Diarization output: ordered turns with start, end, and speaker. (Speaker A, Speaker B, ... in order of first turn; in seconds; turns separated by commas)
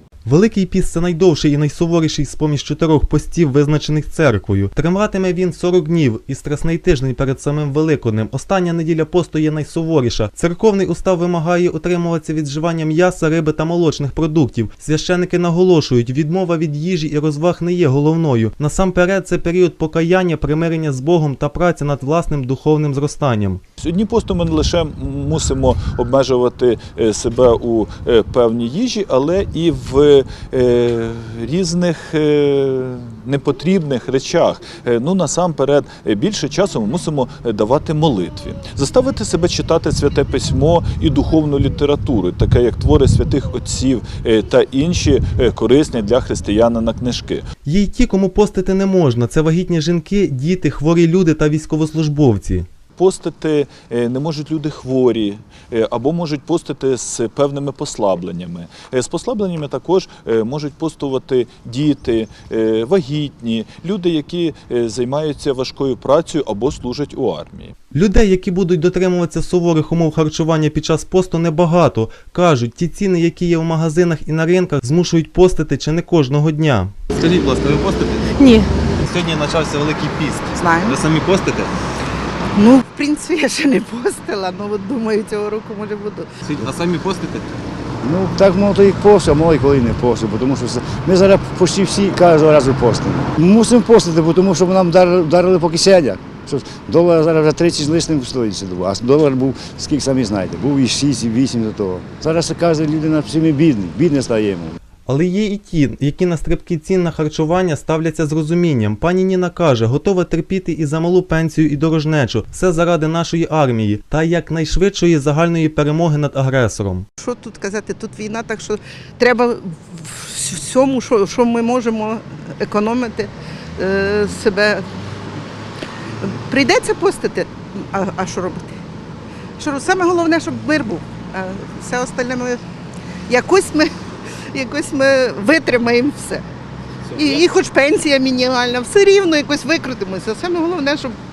Speaker A: 0.2-23.6, Speaker B: 23.8-47.5, Speaker A: 47.6-52.7, Speaker B: 53.0-67.7, Speaker A: 67.9-76.9, Speaker C: 77.1-78.4, Speaker C: 79.0-81.7, Speaker D: 80.5-81.0, Speaker D: 82.5-86.3, Speaker C: 86.5-87.5, Speaker E: 88.0-104.8, Speaker A: 105.1-117.0, Speaker D: 117.2-124.8, Speaker D: 126.2-128.7, Speaker D: 129.6-132.6, Speaker D: 133.3-133.9, Speaker D: 134.5-136.4, Speaker D: 137.1-141.1